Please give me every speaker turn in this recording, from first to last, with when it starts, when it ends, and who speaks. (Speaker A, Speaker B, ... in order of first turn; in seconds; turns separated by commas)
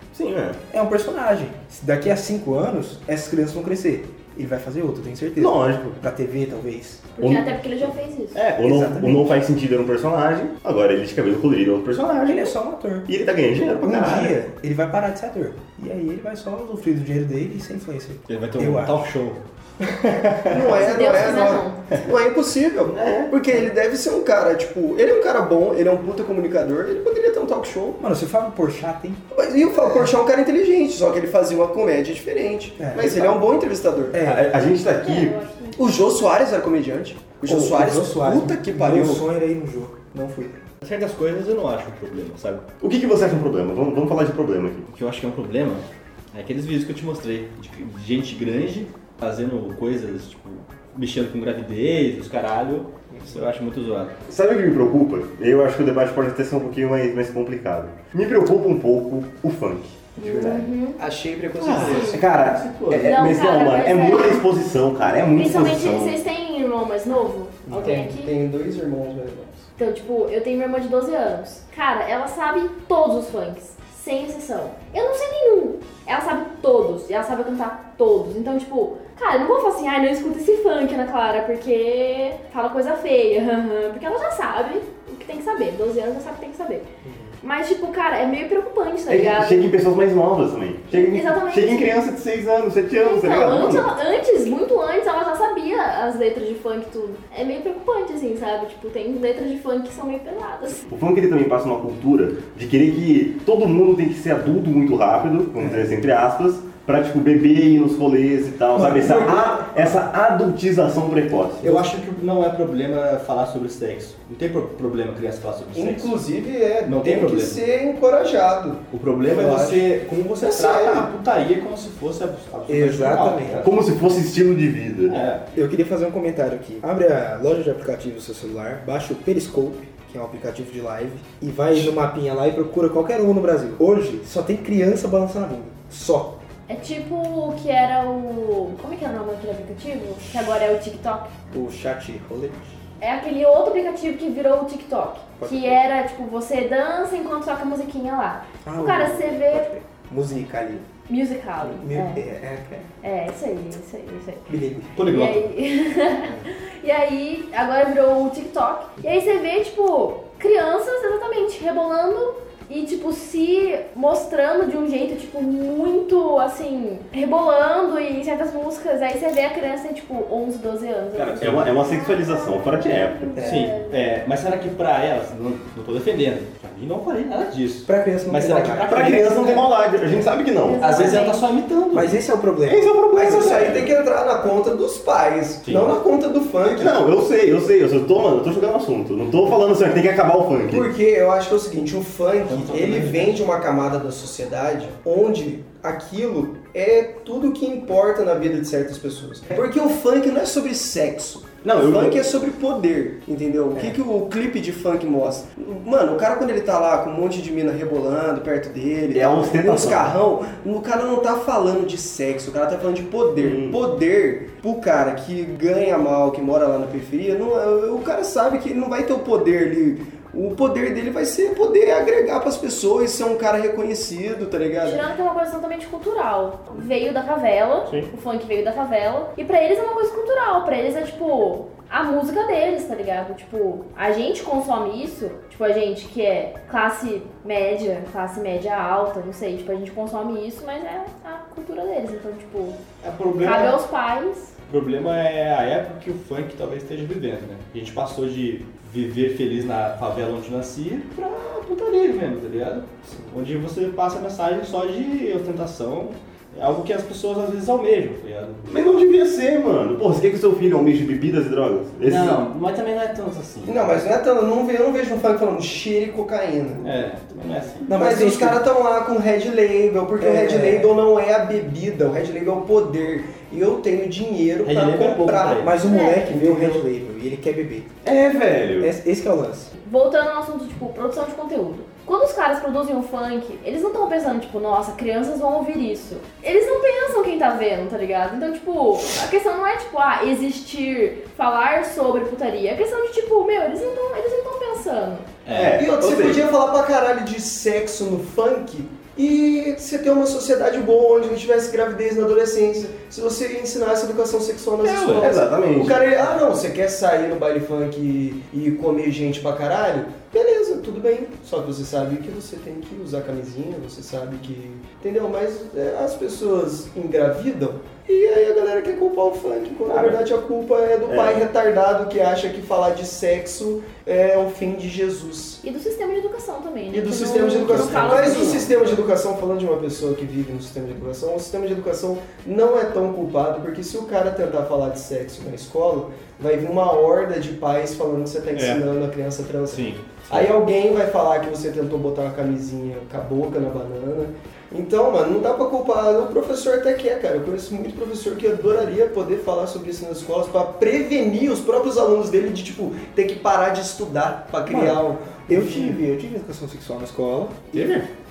Speaker A: 0.1-0.6, Speaker B: 0.7-7.1, Speaker A: 5.4-6.0, Speaker C: 7.2-8.4, Speaker A: 7.2-7.5, Speaker A: 8.3-12.6, Speaker B: 8.6-9.3, Speaker B: 12.3-13.1, Speaker A: 13.1-14.4, Speaker B: 13.8-19.0, Speaker D: 18.3-20.9, Speaker E: 20.5-28.0, Speaker C: 20.8-21.8, Speaker D: 23.0-23.3, Speaker B: 28.0-29.2, Speaker E: 29.3-34.2, Speaker B: 32.8-33.4, Speaker B: 34.1-34.5, Speaker A: 34.2-35.4, Speaker C: 35.0-35.8, Speaker E: 35.8-39.2, Speaker B: 37.5-40.6, Speaker D: 40.8-42.7, Speaker A: 42.8-44.9, Speaker D: 44.9-54.1, Speaker A: 54.3-60.7, Speaker C: 60.2-61.0, Speaker E: 61.0-62.4, Speaker D: 61.6-63.2, Speaker A: 61.7-66.2, Speaker C: 61.9-62.2, Speaker C: 63.0-64.5, Speaker C: 65.3-68.3, Speaker B: 67.7-68.0, Speaker E: 67.7-69.7, Speaker C: 69.8-86.9, Speaker B: 87.0-87.3, Speaker C: 87.4-89.7, Speaker A: 89.1-93.9, Speaker C: 90.9-92.0, Speaker C: 93.0-100.8, Speaker A: 100.9-111.8, Speaker B: 105.6-105.9, Speaker E: 108.8-109.9, Speaker B: 109.0-109.4, Speaker D: 111.6-116.1, Speaker E: 115.8-119.9, Speaker D: 116.8-117.6, Speaker D: 118.9-123.7, Speaker E: 120.4-121.1, Speaker B: 122.7-123.7, Speaker A: 123.6-125.3, Speaker D: 125.1-125.5, Speaker B: 125.5-136.4, Speaker C: 136.7-141.3, Speaker B: 141.5-142.8, Speaker C: 143.0-149.7, Speaker B: 145.4-145.8, Speaker B: 148.6-150.9, Speaker C: 151.1-152.2, Speaker B: 151.6-152.9, Speaker C: 153.0-154.5, Speaker B: 154.5-154.9, Speaker D: 155.0-155.4, Speaker C: 155.0-174.1, Speaker A: 171.2-173.4, Speaker D: 171.4-171.7, Speaker B: 173.4-173.7, Speaker D: 173.4-179.7, Speaker B: 177.9-179.2, Speaker A: 178.9-181.2, Speaker C: 180.6-181.4, Speaker D: 180.8-182.2, Speaker B: 181.9-183.5, Speaker A: 182.7-183.9, Speaker E: 183.1-187.1, Speaker D: 185.7-186.0, Speaker A: 186.6-190.9, Speaker E: 190.7-225.0, Speaker D: 192.5-193.3, Speaker A: 201.6-202.2, Speaker A: 209.1-210.2, Speaker A: 213.4-213.8, Speaker C: 224.8-242.8, Speaker D: 243.0-243.8, Speaker C: 243.4-244.5, Speaker D: 244.7-258.7, Speaker A: 258.7-262.4, Speaker D: 262.0-264.0, Speaker E: 263.6-266.9, Speaker D: 266.8-267.9, Speaker B: 267.9-268.6, Speaker E: 267.9-276.8, Speaker B: 270.2-270.9, Speaker D: 274.6-275.8, Speaker B: 275.6-277.9, Speaker C: 275.8-276.2, Speaker A: 278.0-278.9, Speaker B: 278.8-279.7, Speaker C: 279.8-295.3, Speaker D: 295.4-295.8, Speaker A: 295.5-296.4, Speaker E: 295.8-325.6, Speaker D: 304.8-305.4, Speaker A: 305.1-306.0, Speaker A: 319.9-320.2, Speaker A: 321.1-321.4, Speaker C: 325.6-328.7, Speaker E: 326.9-356.0, Speaker A: 327.7-328.6, Speaker D: 338.5-338.8, Speaker D: 339.7-340.5, Speaker B: 354.7-357.9, Speaker D: 357.7-358.1